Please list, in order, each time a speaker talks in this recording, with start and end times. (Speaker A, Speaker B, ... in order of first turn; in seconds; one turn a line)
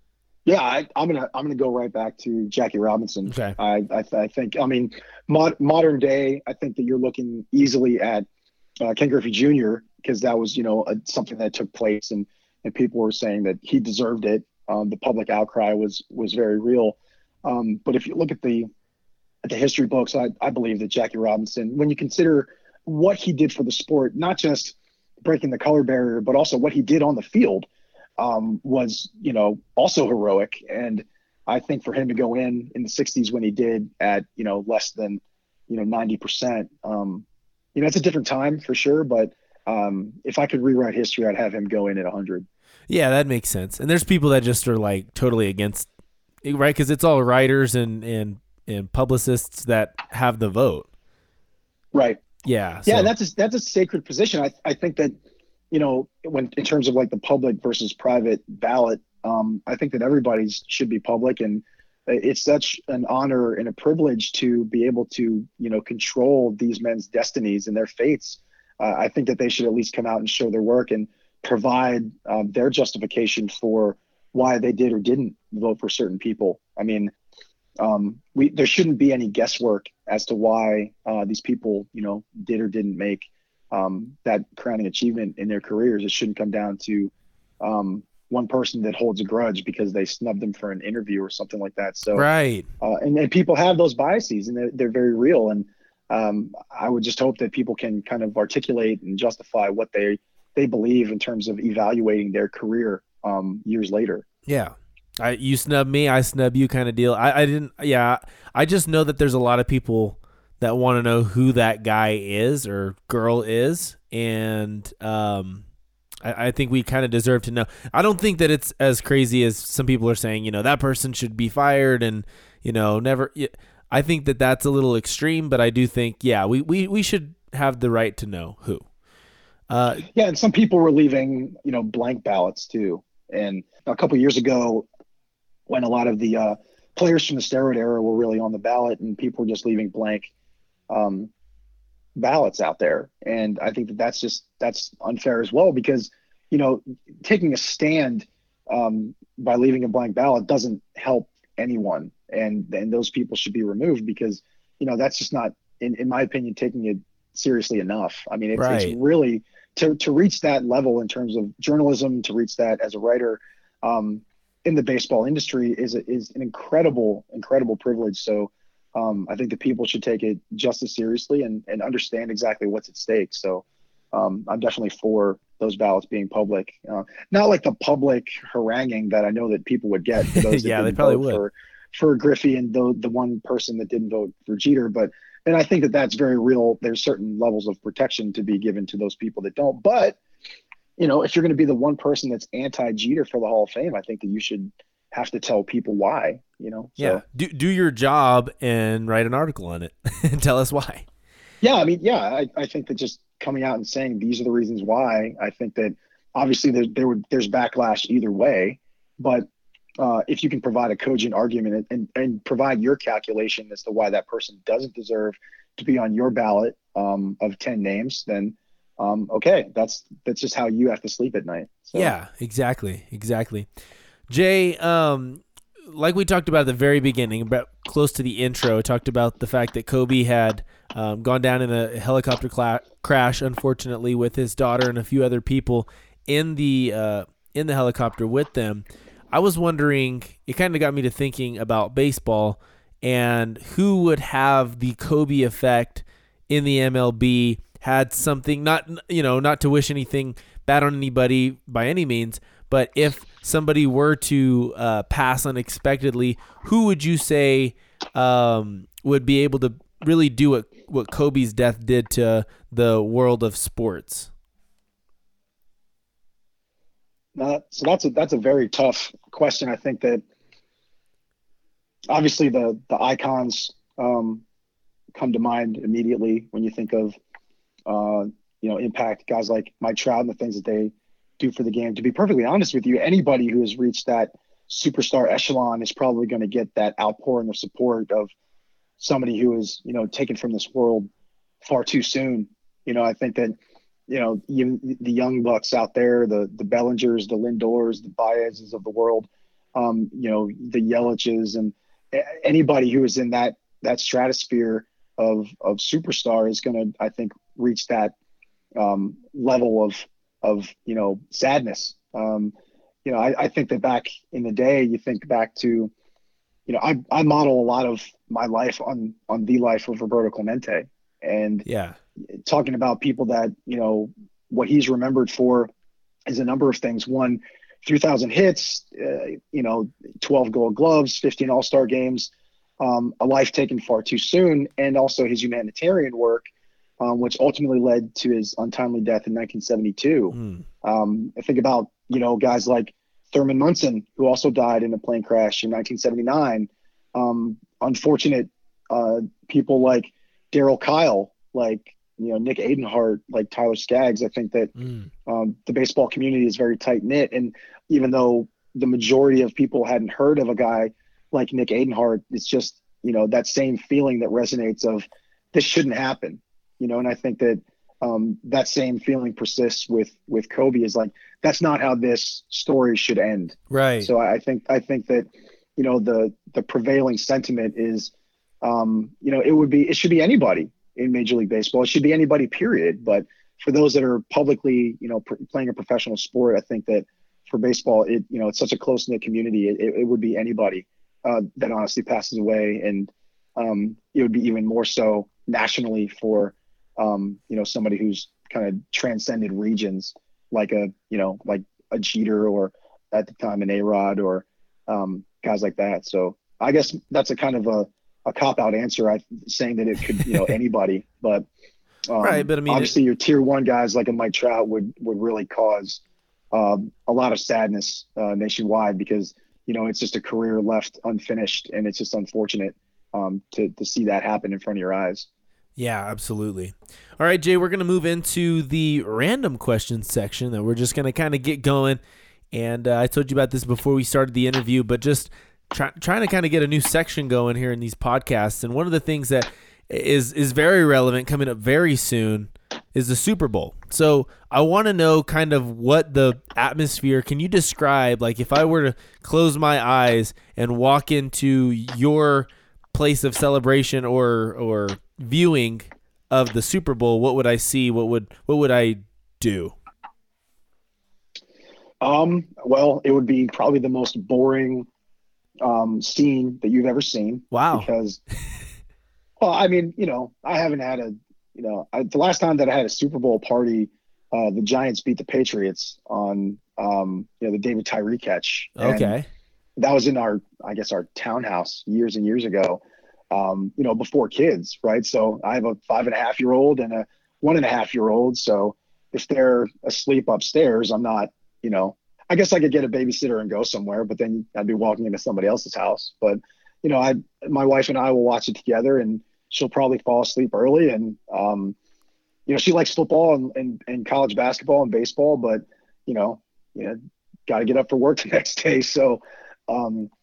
Speaker A: 0.5-8.3
Speaker B: 3.3-3.6
Speaker A: 8.8-18.7
Speaker A: 19.4-27.7
Speaker A: 28.2-42.5
Speaker B: 42.9-45.9
Speaker B: 46.4-50.9
Speaker A: 51.9-52.2
Speaker B: 52.4-53.1
Speaker A: 52.9-55.2
Speaker A: 55.7-77.1
Speaker A: 77.8-92.3
Speaker B: 92.1-92.7
Speaker A: 92.8-104.3
Speaker B: 104.5-115.6
Speaker B: 116.2-128.9
Speaker B: 129.7-130.1
Speaker A: 130.1-134.9
Speaker A: 135.7-140.3
Speaker A: 140.9-141.3
Speaker A: 142.2-190.2
Speaker B: 158.5-159.0
Speaker B: 180.2-181.4
Speaker A: 191.0-197.2
Speaker B: 197.0-201.1
Speaker A: 201.6-209.5
Speaker A: 210.0-222.2
Speaker B: 221.9-223.7
Speaker B: 224.3-264.3
Speaker A: 267.4-270.2
Speaker A: 272.1-274.4
Speaker A: 275.1-277.1
Speaker A: 277.9-288.3
Speaker A: 289.0-291.1
Speaker A: 291.6-293.6
Speaker A: 294.1-308.1
Speaker A: 308.8-312.5
Speaker A: 313.1-315.9
Speaker A: 316.7-321.6
Speaker B: 321.6-322.0
Speaker A: 322.3-325.7
Speaker A: 326.3-336.5
Speaker A: 337.0-354.7
Speaker B: 340.3-340.6
Speaker B: 354.8-355.1
Speaker A: 355.3-411.5
Speaker B: 373.7-374.1
Speaker A: 412.1-416.0
Speaker B: 412.2-412.9
Speaker A: 416.5-425.3
Speaker B: 425.8-432.0
Speaker B: 432.5-459.8
Speaker A: 462.0-464.9
Speaker A: 465.6-468.2
Speaker B: 467.5-467.9
Speaker A: 469.4-479.1
Speaker B: 478.8-479.3
Speaker A: 479.8-501.8
Speaker A: 502.5-510.1